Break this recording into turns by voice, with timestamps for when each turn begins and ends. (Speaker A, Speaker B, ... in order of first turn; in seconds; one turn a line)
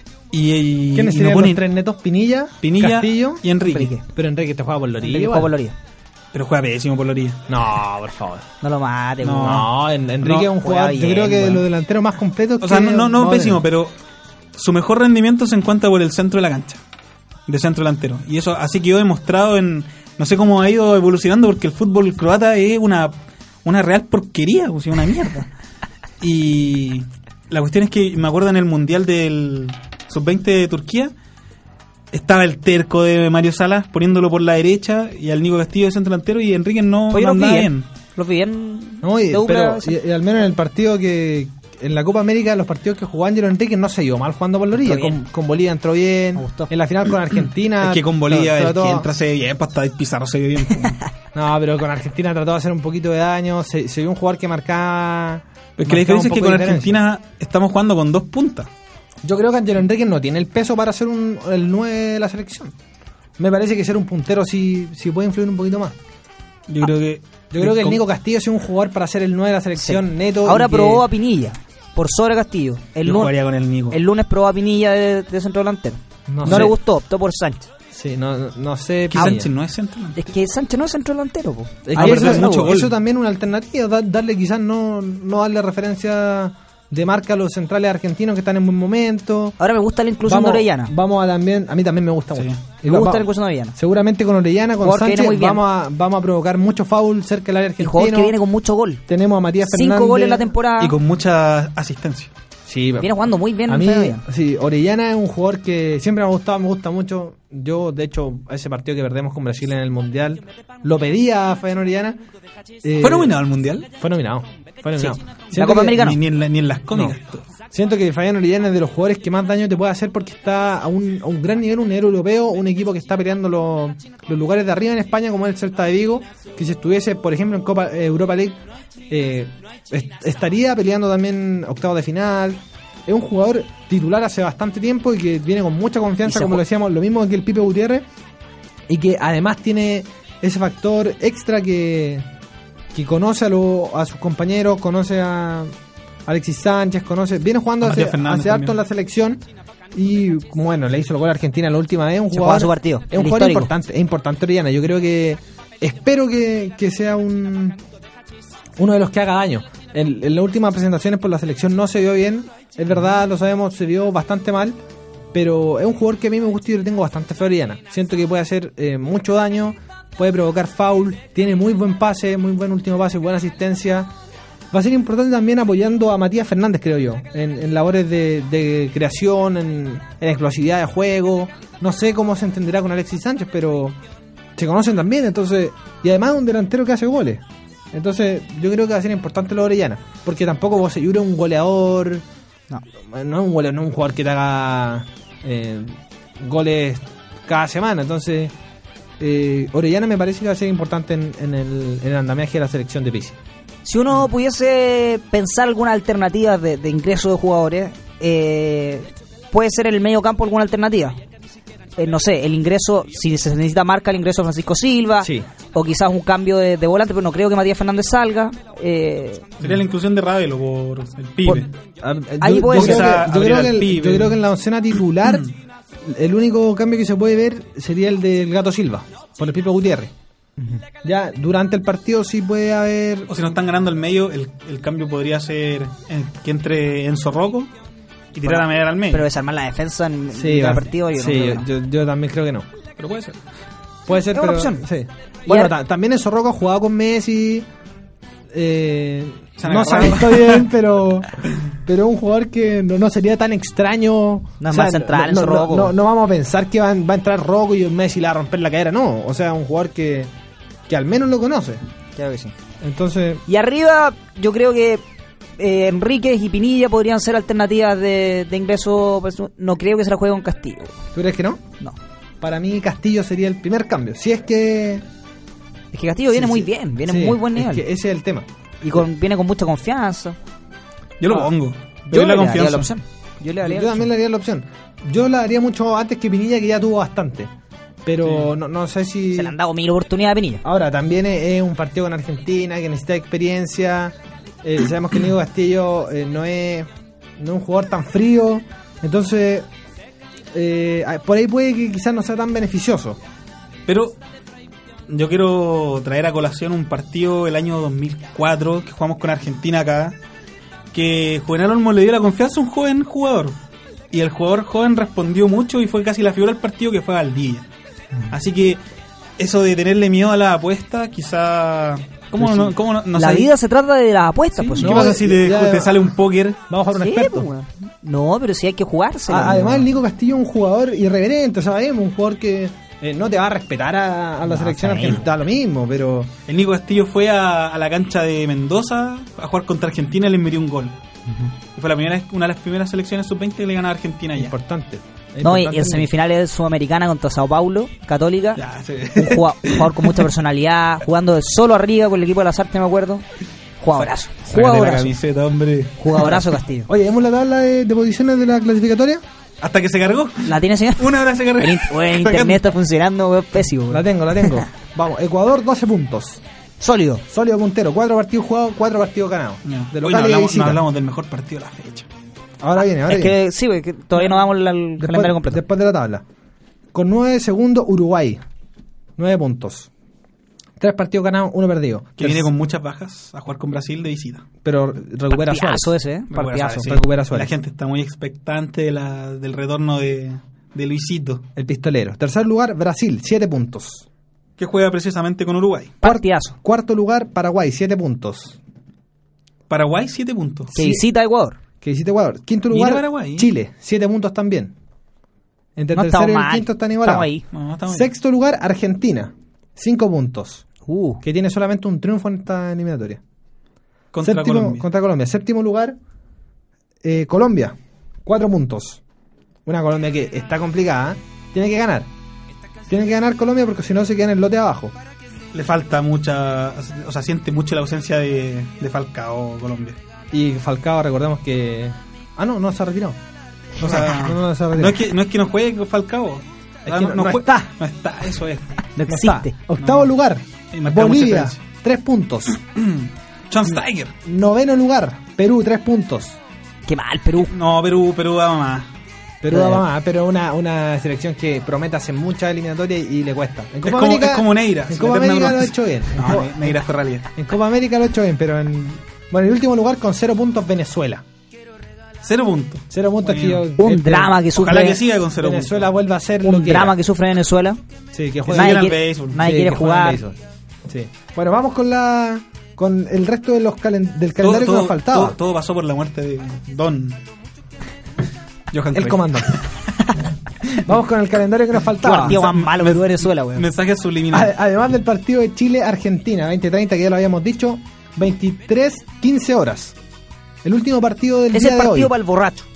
Speaker A: 0.3-1.6
Speaker B: 0.9-3.5
Speaker A: 2.6-4.0
Speaker C: 3.6-4.0
Speaker B: 4.0-5.5
Speaker C: 5.0-5.8
Speaker A: 6.3-7.4
Speaker B: 7.5-8.4
Speaker C: 8.6-9.7
Speaker A: 9.2-9.7
Speaker B: 9.4-13.6
Speaker C: 10.2-11.6
Speaker A: 12.6-13.9
Speaker A: 14.6-16.8
Speaker A: 17.5-23.1
Speaker A: 23.6-25.5
Speaker A: 26.2-31.1
Speaker A: 32.1-37.9
Speaker C: 37.1-40.0
Speaker B: 39.0-49.1
Speaker C: 44.8-45.2
Speaker C: 46.4-46.7
Speaker A: 47.8-51.0
Speaker B: 51.3-57.0
Speaker A: 55.8-58.7
Speaker B: 59.2-62.7
Speaker B: 63.4-66.0
Speaker A: 66.7-68.0
Speaker B: 67.5-71.1
Speaker C: 69.8-73.3
Speaker A: 73.0-74.0
Speaker C: 73.9-77.7
Speaker B: 76.3-76.8
Speaker A: 76.5-76.7
Speaker B: 77.9-79.5
Speaker A: 79.1-80.2
Speaker C: 80.2-82.8
Speaker B: 81.8-89.6
Speaker A: 82.0-82.9
Speaker C: 89.6-90.9
Speaker B: 90.3-98.3
Speaker C: 92.8-93.8
Speaker C: 94.8-95.6
Speaker C: 97.8-99.0
Speaker B: 99.1-100.5
Speaker C: 99.6-101.0
Speaker A: 100.8-102.3
Speaker B: 102.7-112.2
Speaker C: 103.0-104.2
Speaker B: 112.8-113.3
Speaker A: 113.0-113.9
Speaker B: 114.0-116.1
Speaker C: 115.0-116.2
Speaker A: 115.8-117.5
Speaker B: 117.7-128.6
Speaker B: 129.1-138.1
Speaker C: 136.3-136.6
Speaker B: 138.9-142.2
Speaker B: 142.9-145.7
Speaker B: 146.3-149.4
Speaker A: 147.8-148.8
Speaker B: 149.9-157.8
Speaker C: 152.3-153.7
Speaker B: 158.8-164.8
Speaker B: 165.3-174.1
Speaker B: 174.7-184.0
Speaker B: 184.6-192.2
Speaker B: 193.1-198.5
Speaker B: 199.2-203.4
Speaker C: 203.8-211.2
Speaker C: 212.0-219.6
Speaker B: 215.2-215.5
Speaker A: 219.6-221.7
Speaker B: 221.5-225.5
Speaker C: 222.4-223.2
Speaker A: 222.7-224.4
Speaker B: 226.0-230.1
Speaker B: 231.0-233.3
Speaker A: 233.3-237.7
Speaker A: 238.3-239.3
Speaker C: 238.4-241.7
Speaker B: 240.3-242.7
Speaker A: 243.0-243.4
Speaker B: 244.1-247.7
Speaker C: 244.2-244.8
Speaker C: 245.5-245.7
Speaker B: 248.5-260.3
Speaker A: 249.6-250.7
Speaker C: 254.6-255.9
Speaker B: 260.9-261.8
Speaker C: 262.2-262.5
Speaker B: 262.8-263.4
Speaker C: 263.5-265.0
Speaker C: 265.6-270.9
Speaker B: 271.1-271.6
Speaker B: 272.4-275.1
Speaker C: 275.9-277.8
Speaker B: 276.3-278.5
Speaker C: 278.8-280.4
Speaker A: 281.2-282.9
Speaker C: 282.1-284.1
Speaker B: 283.6-287.5
Speaker B: 288.1-289.6
Speaker C: 289.3-290.6
Speaker B: 290.6-299.7
Speaker B: 300.5-303.2
Speaker A: 303.9-304.2
Speaker A: 305.1-310.2
Speaker A: 310.9-313.6
Speaker A: 314.1-317.7
Speaker A: 318.3-318.8
Speaker A: 319.4-323.5
Speaker B: 322.4-322.7
Speaker C: 323.1-325.1
Speaker A: 324.6-326.6
Speaker B: 324.8-326.1
Speaker B: 326.7-327.5
Speaker C: 326.9-329.7
Speaker B: 329.3-336.3
Speaker C: 334.5-335.2
Speaker A: 336.5-340.9
Speaker A: 341.8-344.5
Speaker B: 344.4-346.1
Speaker C: 345.4-348.6
Speaker A: 348.6-350.3
Speaker C: 349.1-353.2
Speaker C: 353.8-355.2
Speaker A: 354.0-356.5
Speaker C: 356.0-356.9
Speaker B: 356.9-359.2
Speaker A: 359.6-362.6
Speaker C: 360.4-364.6
Speaker B: 363.9-366.4
Speaker C: 366.8-367.2
Speaker B: 367.3-370.8
Speaker A: 369.6-372.1
Speaker B: 372.6-373.4
Speaker C: 373.0-375.6
Speaker B: 375.0-376.2
Speaker B: 376.9-378.4
Speaker B: 379.2-379.9
Speaker B: 380.8-382.5
Speaker A: 382.2-384.4
Speaker B: 384.6-385.9
Speaker C: 385.3-386.9
Speaker A: 386.3-391.4
Speaker B: 386.8-387.5
Speaker B: 391.6-394.1
Speaker A: 394.6-395.9
Speaker C: 396.0-396.6
Speaker B: 396.0-398.6
Speaker A: 399.7-400.7
Speaker C: 400.8-401.6
Speaker B: 400.8-401.0
Speaker B: 401.8-404.7
Speaker A: 402.7-403.5
Speaker B: 405.8-407.3
Speaker C: 405.9-407.4
Speaker A: 407.5-408.1
Speaker B: 407.9-410.7
Speaker C: 410.9-411.2
Speaker B: 411.2-413.2
Speaker A: 414.1-414.9
Speaker B: 414.2-416.0
Speaker B: 417.0-419.0
Speaker B: 419.7-422.1
Speaker B: 422.9-424.9
Speaker A: 425.5-430.0
Speaker B: 430.3-433.2
Speaker B: 433.8-435.1
Speaker A: 433.8-438.8
Speaker B: 436.9-437.7
Speaker C: 438.9-439.5
Speaker B: 439.1-442.6
Speaker A: 439.8-440.1
Speaker A: 440.7-441.6
Speaker A: 442.5-444.1
Speaker B: 444.2-446.4
Speaker C: 446.9-447.5
Speaker A: 447.5-448.9
Speaker B: 449.4-456.8
Speaker C: 449.5-449.8
Speaker A: 453.8-457.3
Speaker B: 457.3-461.2
Speaker A: 462.2-465.9
Speaker B: 462.9-464.3
Speaker C: 463.8-465.0
Speaker B: 465.4-467.0
Speaker C: 466.4-467.8
Speaker B: 468.1-475.4
Speaker A: 468.5-469.4
Speaker C: 468.5-470.2
Speaker A: 474.4-477.2
Speaker A: 478.7-479.7
Speaker B: 478.9-479.6
Speaker B: 480.8-482.4
Speaker C: 482.0-483.7
Speaker A: 482.2-484.5
Speaker B: 484.3-489.9
Speaker B: 490.6-492.1
Speaker C: 491.5-492.7